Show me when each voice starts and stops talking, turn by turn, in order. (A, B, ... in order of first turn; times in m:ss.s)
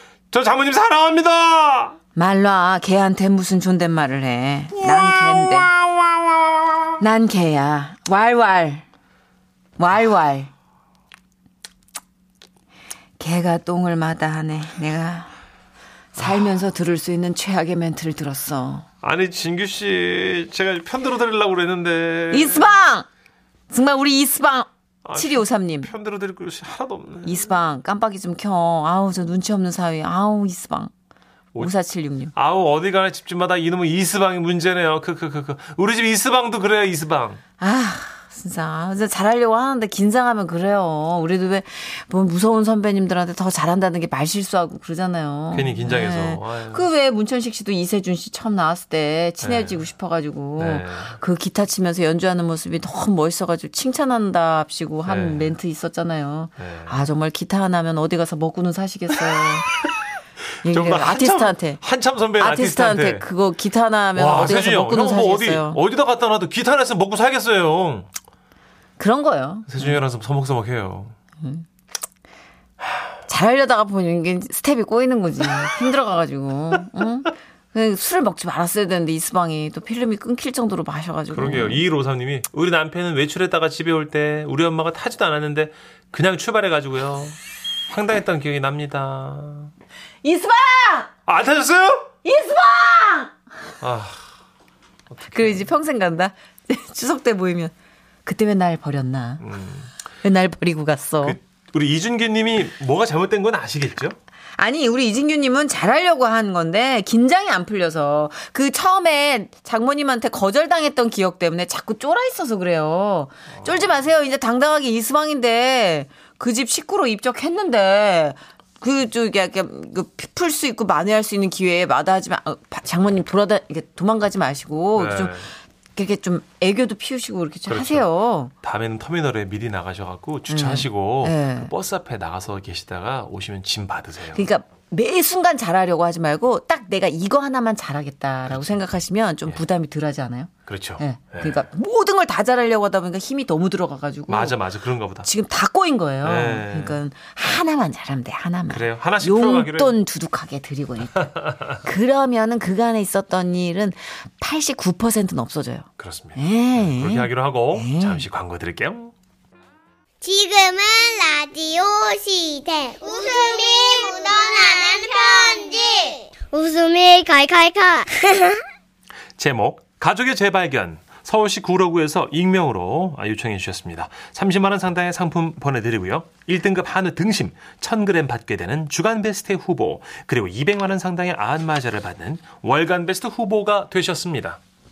0:00.3-0:02.0 A
0:02.1-0:05.7 B
0:04.7-0:06.8 A
0:07.0-0:08.8 B
0:09.8-0:10.5 B
0:13.2-0:15.3 B
0:16.1-0:18.8 B
0:19.0-0:22.8 A
0:22.3-0:23.1 B
0:23.7-0:25.9 B
0:25.0-0:27.6 A
0:27.2-0:30.9 B
0:31.6-0:32.3 B
0:32.3-0:37.4 A
0:37.6-0:59.7 B
0:45.5-0:46.9 A
0:49.4-0:49.8 A
0:50.6-0:51.2 A
0:55.0-0:55.6 A
0:56.6-0:57.0 A
1:00.6-1:01.8 B
1:00.6-1:03.2 A
1:02.4-1:05.8 B
1:04.2-1:08.1 A
1:09.0-1:09.9 B
1:09.7-1:11.1 A
1:11.4-1:11.6 B
1:13.2-1:21.8 B
1:21.3-1:27.4 A
1:27.9-1:29.7 A
1:30.2-1:31.1 B
1:31.3-1:32.1 A
1:32.2-1:33.3 B
1:33.8-1:34.2 A
1:35.2-1:35.7 A
1:35.3-1:37.7 B
1:38.2-1:39.4 B
1:39.4-1:39.9 A
1:40.2-1:41.4 B
1:41.2-1:44.2 A
1:44.6-2:08.5 B
1:53.6-1:53.8 A
2:04.9-2:05.5 A
2:07.7-2:08.1 A
2:08.6-2:14.4 A
2:10.5-2:11.7 B
2:14.3-2:24.6 B
2:18.4-2:18.8 A
2:20.6-2:21.6 A
2:24.3-2:25.3 A
2:25.2-2:38.2 B
2:26.2-2:27.0 A
2:28.7-2:30.0 A
2:36.0-2:39.1 A
2:40.2-2:48.5 C
2:49.4-3:04.6 A